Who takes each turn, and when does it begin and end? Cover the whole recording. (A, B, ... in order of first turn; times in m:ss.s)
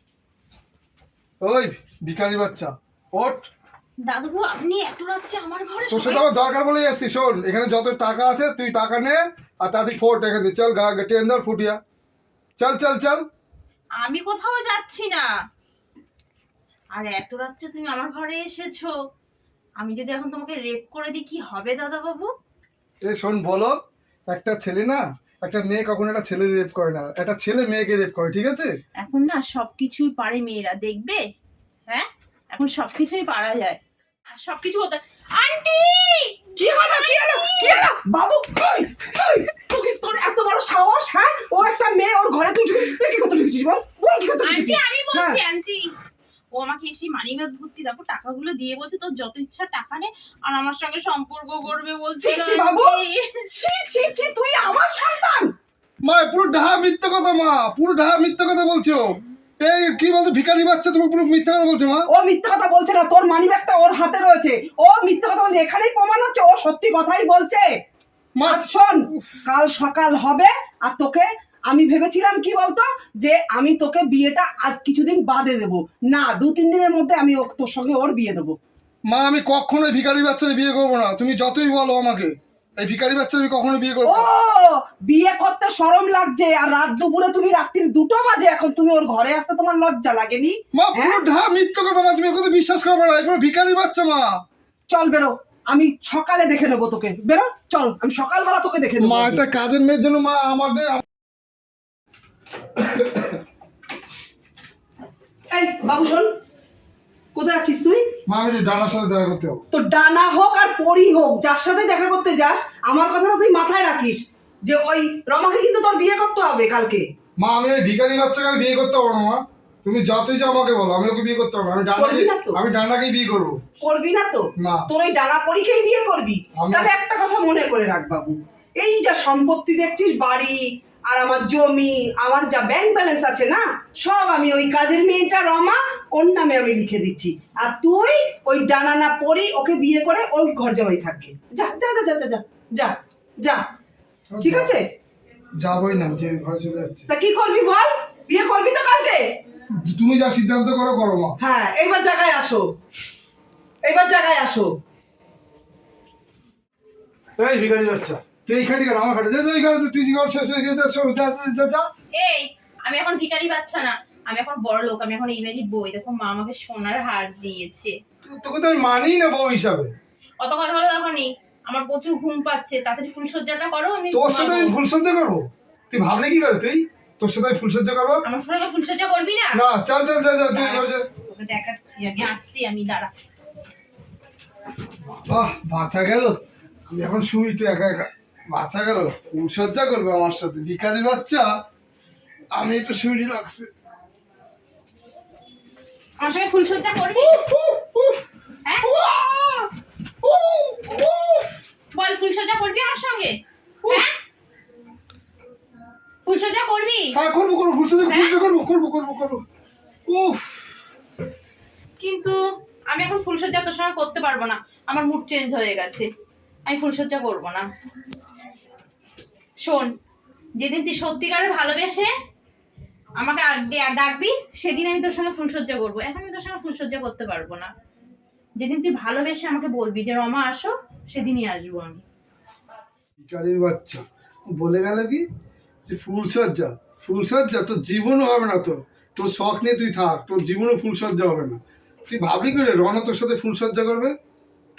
0:01.4-0:03.5 A
0:04.0-0:06.2 B
0:05.9-0:11.8 A
0:12.6-0:13.2 A
0:14.0-0:15.3 B
0:16.9-0:18.9 B
0:19.8-0:22.3 B
0:23.0-0:28.8 A
0:29.0-0:31.2 B
0:31.9-0:33.8 B
0:34.3-0:37.9 B
0:36.6-0:45.4 C
0:44.4-0:45.9 B
0:46.5-0:53.5 B
0:52.2-0:55.5 C
0:56.0-1:02.1 A
1:02.1-1:07.7 C
1:08.4-1:09.4 A
1:08.4-1:18.6 C
1:19.1-1:24.3 A
1:24.0-1:31.2 C
1:30.7-1:34.3 A
1:34.9-1:39.4 C
1:39.0-1:41.0 A
1:42.8-1:43.3 A
1:45.5-1:46.3 C
1:47.3-1:48.0 C
1:48.3-1:49.6 A
1:49.7-1:57.0 C
1:57.4-2:03.6 A
2:01.9-2:02.6 C
2:03.8-2:23.6 C
2:06.5-2:06.9 A
2:24.3-2:24.8 A
2:24.4-2:24.8 C
2:25.6-2:27.1 A
2:27.1-2:29.2 C
2:29.8-2:31.4 A
2:31.4-2:32.6 C
2:33.8-2:34.7 C
2:37.4-2:41.9 A
2:42.1-2:47.9 B
2:48.2-2:49.9 A
2:50.4-2:54.8 B
2:54.1-2:58.2 A
2:58.2-2:59.6 B
2:59.5-3:01.1 A
3:00.5-3:03.1 B
3:05.1-3:11.5 A
3:12.5-3:13.7 A
3:16.2-3:17.4 B
3:17.2-3:18.2 A
3:18.6-3:18.9 B
3:18.8-3:19.7 A
3:20.2-3:21.5 A
3:21.9-3:23.3 B
3:23.9-3:24.1 B
3:26.2-3:27.1 B
3:27.1-3:29.4 A
3:28.0-3:28.4 B
3:30.1-3:30.8 A
3:32.0-3:32.4 B
3:32.9-3:36.1 B
3:36.6-3:37.6 B
3:39.6-3:39.9 B
3:40.6-3:42.1 B
3:43.2-3:47.7 B
3:48.6-3:52.0 B
3:53.2-3:54.0 A
3:54.6-3:55.2 A
3:55.8-4:04.1 A